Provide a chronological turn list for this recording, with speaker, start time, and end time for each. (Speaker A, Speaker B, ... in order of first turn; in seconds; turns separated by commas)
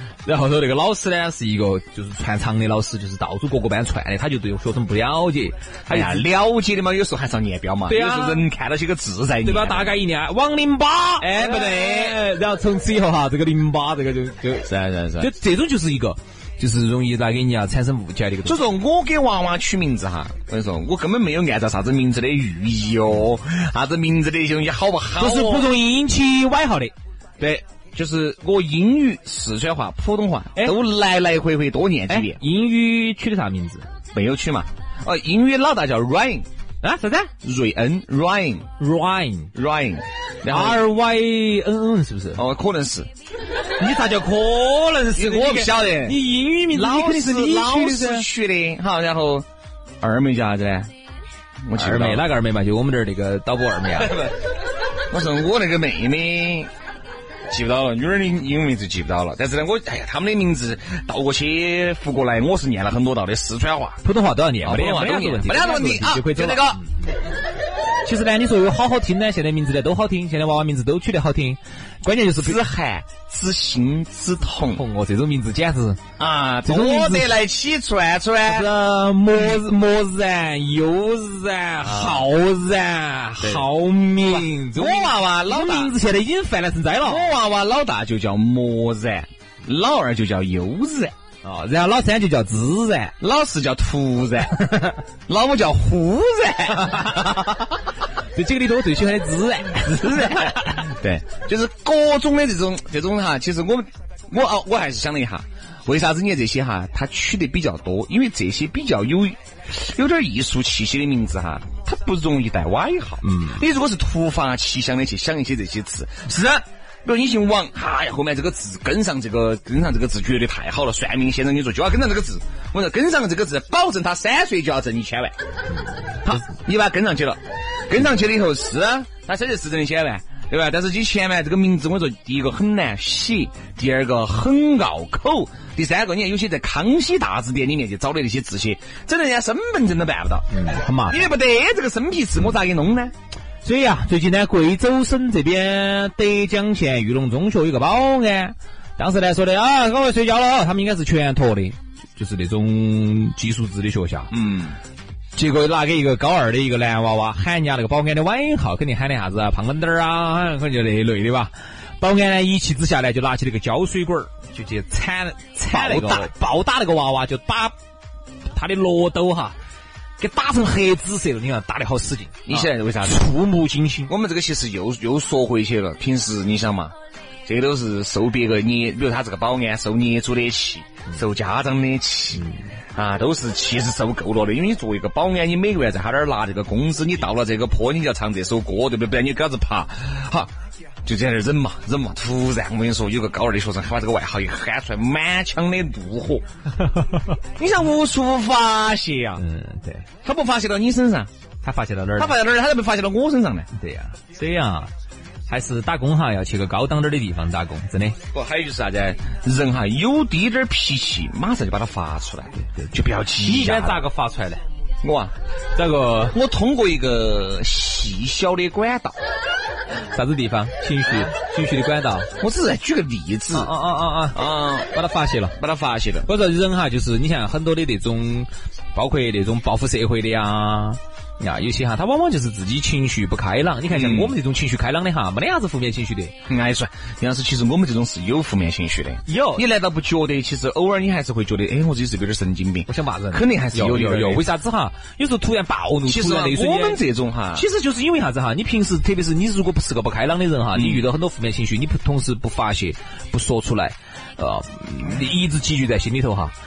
Speaker A: 0.2-6.2, Speaker B: 5.9-10.0, Speaker A: 7.9-8.4, Speaker A: 9.4-18.6, Speaker B: 11.2-12.2, Speaker B: 14.7-15.3, Speaker B: 18.4-25.7, Speaker A: 25.2-26.9, Speaker B: 27.4-32.4, Speaker A: 32.1-33.9, Speaker B: 34.1-36.5, Speaker A: 36.8-37.3, Speaker B: 37.4-38.7, Speaker A: 38.8-39.5, Speaker B: 39.5-40.8, Speaker A: 40.5-42.4, Speaker B: 42.4-43.1, Speaker A: 43.8-48.3, Speaker B: 45.1-49.5, Speaker B: 50.0-50.9, Speaker B: 51.6-52.3, Speaker A: 51.7-54.3, Speaker B: 54.0-54.3, Speaker B: 55.1-56.7, Speaker B: 57.5-64.0, Speaker A: 64.0-67.0, Speaker B: 64.6-66.8, Speaker A: 68.0-72.6, Speaker B: 72.4-74.8, Speaker A: 74.7-76.0, Speaker B: 76.2-78.7, Speaker A: 76.6-77.4, Speaker A: 78.5-87.3, Speaker B: 81.8-82.3, Speaker B: 83.4-83.7, Speaker B: 84.2-85.9, Speaker B: 87.0-91.1, Speaker A: 91.4-93.1, Speaker B: 93.2-94.7, Speaker A: 94.6-95.0, Speaker B: 95.3-97.5, Speaker A: 96.8-97.7, Speaker A: 98.3-100.9, Speaker B: 100.0-125.3, Speaker A: 113.2-113.6, Speaker B: 126.2-140.5, Speaker A: 140.5-141.2, Speaker B: 141.1-143.1, Speaker A: 143.6-154.3, Speaker B: 154.3-154.8, Speaker A: 155.3-167.7, Speaker B: 165.6-166.3, Speaker A: 168.5-169.6, Speaker A: 170.2-174.1, Speaker B: 172.4-173.3, Speaker B: 174.1-176.9, Speaker B: 177.4-190.5, Speaker B: 191.0-196.4, Speaker A: 196.8-197.2, Speaker B: 197.6-199.4, Speaker A: 199.4-200.1, Speaker B: 200.2-201.3, Speaker A: 201.6-202.3, Speaker B: 202.2-203.7, Speaker A: 203.7-204.9, Speaker A: 205.5-208.2, Speaker B: 208.3-214.0, Speaker A: 212.7-214.6, Speaker B: 215.0-215.3, Speaker A: 215.8-216.4, Speaker B: 216.3-219.2, Speaker A: 220.1-222.3, Speaker B: 222.4-223.7, Speaker A: 223.5-225.6, Speaker B: 224.3-224.9, Speaker B: 225.6-226.3, Speaker A: 226.2-236.3, Speaker B: 233.9-234.3, Speaker B: 236.5-244.4, Speaker A: 239.3-239.6, Speaker A: 242.9-247.0, Speaker B: 246.1-247.6, Speaker A: 247.5-256.5, Speaker B: 250.7-251.0